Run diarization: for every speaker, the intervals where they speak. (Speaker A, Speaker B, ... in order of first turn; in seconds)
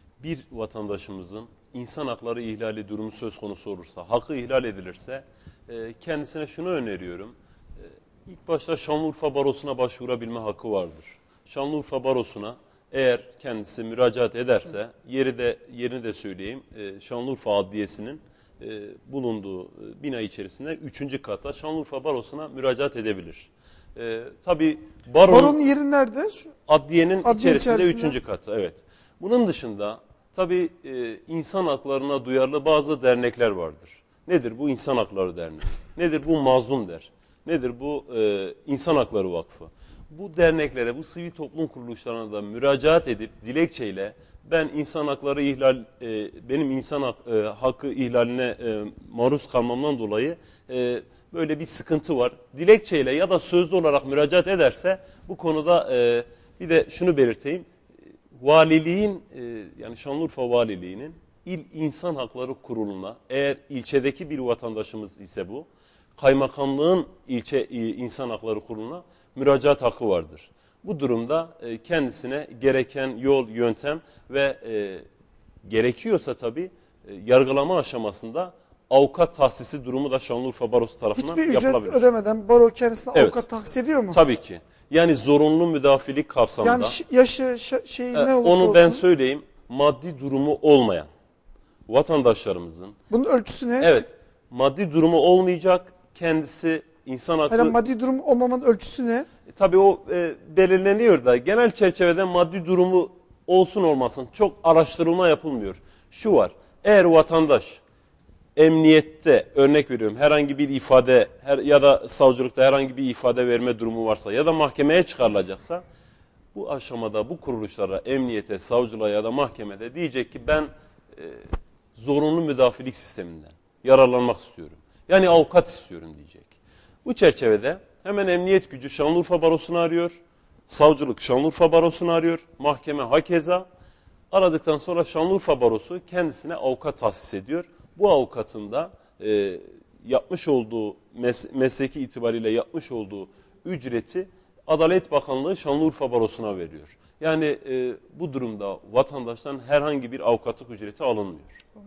Speaker A: 0.2-25.6, 26.7-57.7, 58.3-65.7, 66.2-75.0, 75.6-82.1, 83.1-83.5, 84.1-87.0, 88.1-91.1, 91.9-93.0, 93.8-97.8, 99.5-107.8, 108.5-115.8, 116.5-133.7, 134.3-151.6
Speaker B: 25.2-26.5, 27.2-28.2, 81.2-84.2, 86.6-89.0, 93.1-94.1, 97.5-99.3